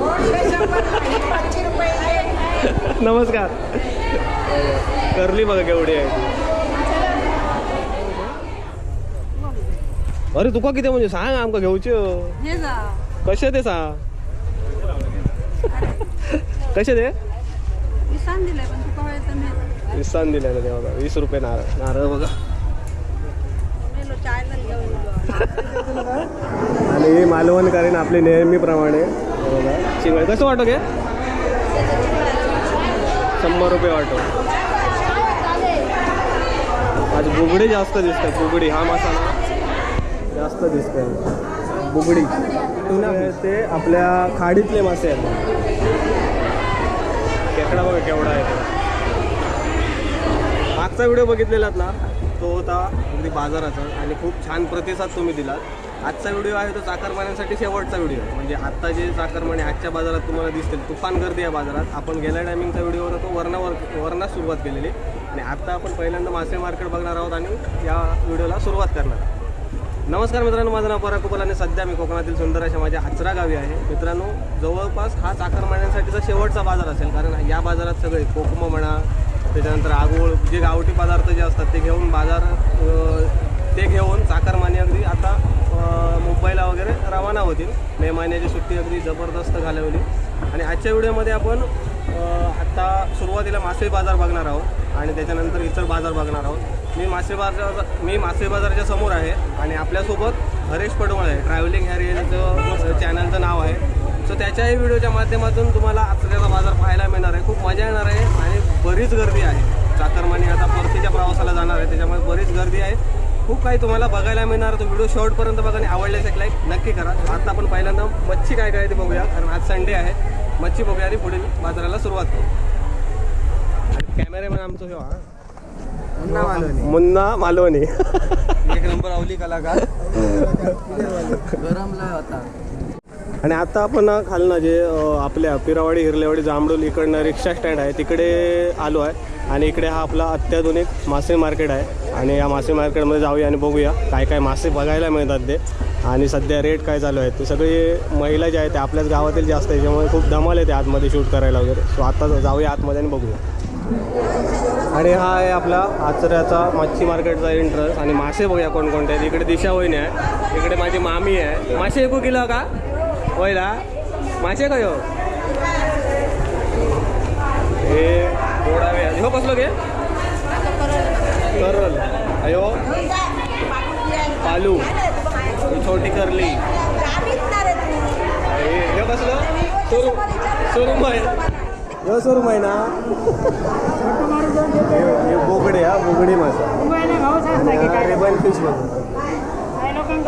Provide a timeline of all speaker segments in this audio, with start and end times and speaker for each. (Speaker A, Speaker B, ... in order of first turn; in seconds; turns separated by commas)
Speaker A: 0.4-1.1, Speaker B: 1.6-1.9, Speaker A: 2.6-3.5, Speaker A: 4.3-6.3, Speaker A: 10.3-12.5, Speaker A: 13.2-14.0, Speaker A: 16.3-17.1, Speaker B: 18.1-19.6, Speaker A: 19.9-22.3, Speaker B: 23.9-25.2, Speaker C: 25.5-26.3, Speaker A: 26.9-30.8, Speaker A: 33.4-34.3, Speaker A: 37.1-39.4, Speaker A: 40.3-41.3, Speaker A: 41.8-45.4, Speaker A: 47.5-48.7, Speaker A: 50.8-69.3, Speaker A: 70.1-122.5, Speaker A: 123.9-125.2, Speaker A: 126.2-128.4, Speaker C: 128.6-129.9, Speaker A: 130.2-130.8, Speaker C: 131.1-132.2, Speaker A: 133.4-153.4, Speaker A: 154.9-162.7, Speaker A: 163.3-163.8, Speaker A: 164.4-165.1, Speaker A: 167.8-169.7, Speaker A: 171.5-172.9, Speaker A: 174.4-174.9, Speaker A: 175.7-176.6, Speaker A: 178.4-181.4, Speaker A: 182.0-182.9, Speaker A: 184.7-186.8, Speaker A: 187.5-189.1